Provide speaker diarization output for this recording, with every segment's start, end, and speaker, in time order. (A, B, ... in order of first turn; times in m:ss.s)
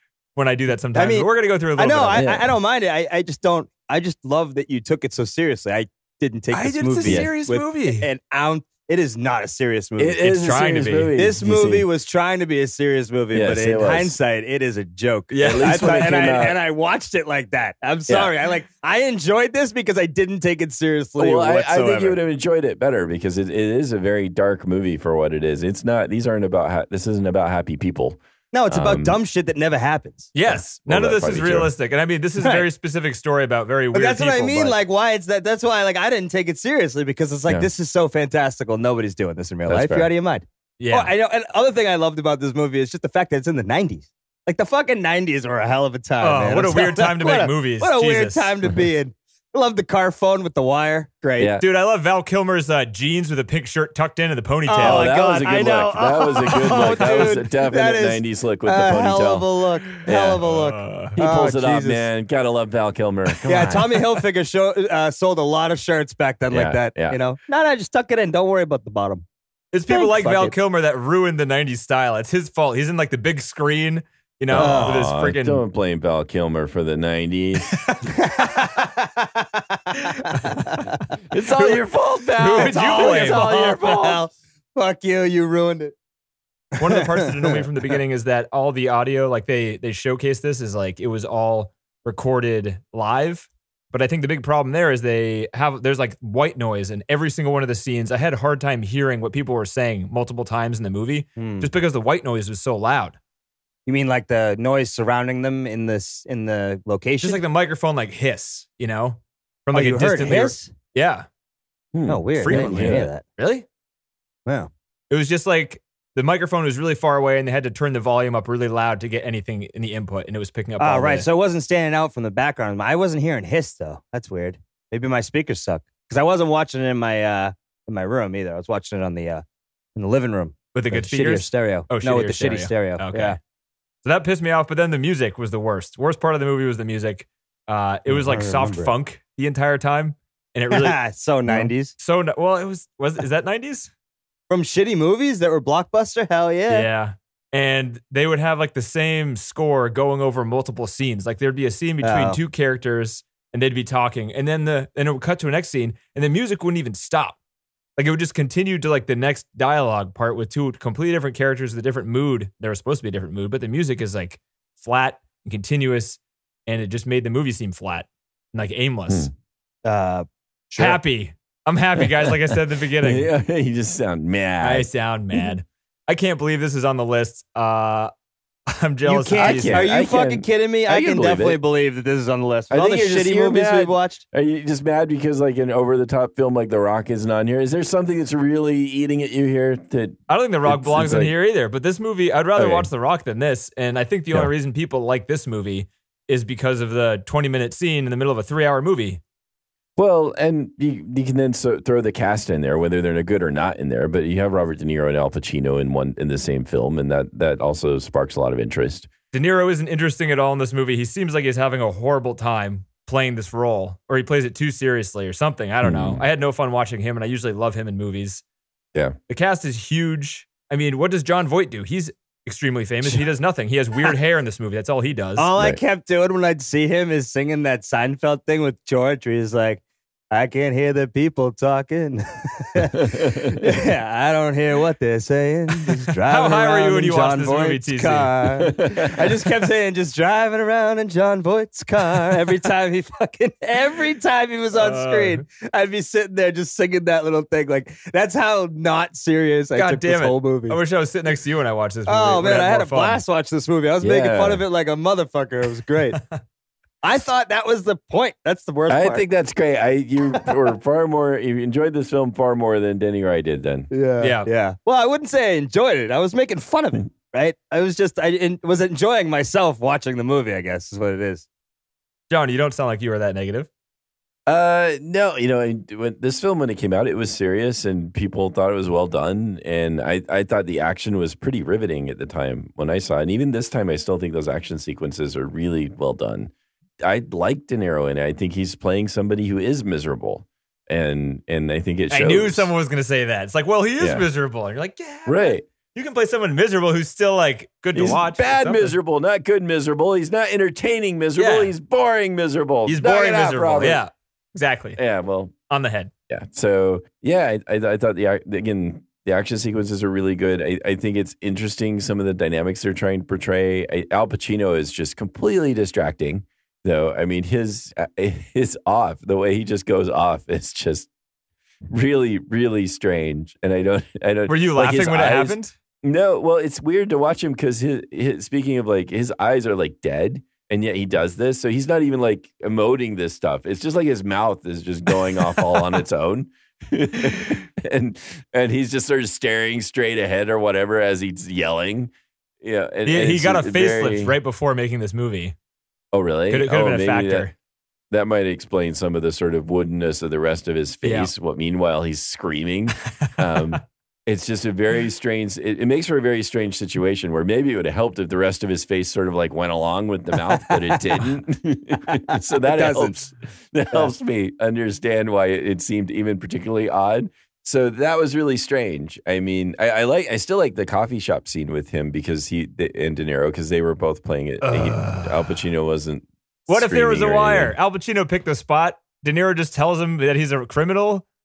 0:00.4-0:02.2 A
0:00.9-0:10.2 B
0:02.1-0:02.5 C
0:06.5-0:08.1 A
0:07.0-0:07.3 C
0:10.0-0:11.8 C
0:10.2-0:11.1 A
0:11.2-0:22.2 B
0:13.3-0:14.2 C
0:15.3-0:15.9 A
0:15.4-0:16.6 C
0:21.2-0:29.2 C
0:28.5-0:30.3 B
0:30.3-0:34.8 A
0:30.4-0:31.7 C
0:33.9-0:51.5 B
0:39.7-0:40.1 C
0:40.8-0:41.1 A
0:46.2-0:48.5 A
0:51.4-0:51.6 C
0:51.6-0:55.1 A
0:54.7-1:02.0 B
0:54.8-1:00.5 C
1:00.4-1:01.2 A
1:01.1-1:04.0 C
1:03.4-1:09.2 B
1:06.5-1:07.2 C
1:09.7-1:15.6 A
1:09.9-1:10.5 B
1:14.5-1:17.8 C
1:14.5-1:15.1 B
1:18.1-1:21.0 B
1:20.1-1:20.8 A
1:21.3-1:24.3 C
1:22.4-1:23.5 A
1:22.4-1:25.9 B
1:26.8-1:27.6 B
1:26.8-1:43.2 A
1:41.4-1:41.7 B
1:43.8-1:47.4 B
1:47.2-1:51.2 A
1:49.7-1:50.7 B
1:51.9-1:53.1 C
1:52.1-1:53.2 B
1:52.4-1:53.6 A
1:55.1-2:01.2 A
2:00.8-2:09.4 B
2:10.0-2:13.4 B
2:10.7-2:13.4 A
2:14.0-2:23.9 A
2:18.1-2:18.9 B
2:20.7-2:21.9 B
2:24.5-2:26.9 B
2:26.7-2:37.4 A
2:32.0-2:32.4 B
2:38.0-2:49.3 A
2:49.8-2:51.0 B
2:50.8-2:53.3 A
2:52.0-2:54.9 C
2:54.6-2:58.1 A
2:58.7-2:59.8 A
2:59.0-3:04.2 B
2:59.4-3:01.6 C
3:02.7-3:11.3 C
3:10.3-3:19.2 A
3:12.6-3:12.9 C
3:20.0-3:29.1 C
3:29.3-3:38.4 A
3:35.8-3:36.2 C
3:39.3-3:45.5 A
3:45.4-4:10.8 B
3:52.9-3:53.6 C
3:56.3-3:58.3 A
3:58.6-3:59.3 C
4:04.7-4:05.4 A
4:09.8-4:13.2 A
4:12.1-4:16.2 B
4:14.0-4:14.6 C
4:17.0-4:19.2 B
4:18.9-4:23.9 C
4:23.9-4:31.4 B
4:24.2-4:24.5 A
4:32.3-4:33.7 A
4:34.4-4:46.5 C
4:47.0-4:52.7 C
4:52.1-4:58.9 A
4:54.0-4:54.2 C
4:55.2-4:55.6 C
4:57.9-5:04.0 C
5:01.4-5:01.7 A
5:02.8-5:05.0 A
5:05.0-5:05.5 C
5:05.7-5:06.1 A
5:06.3-5:21.1 C
5:21.9-5:44.3 C
5:24.5-5:25.7 A
5:43.0-5:45.5 A
5:46.1-5:47.5 C
5:46.5-5:47.5 A
5:48.1-6:17.7 C
5:51.0-5:51.3 A
6:00.5-6:00.8 B
6:02.3-6:03.2 B
6:14.6-6:15.5 A
6:16.7-6:21.2 A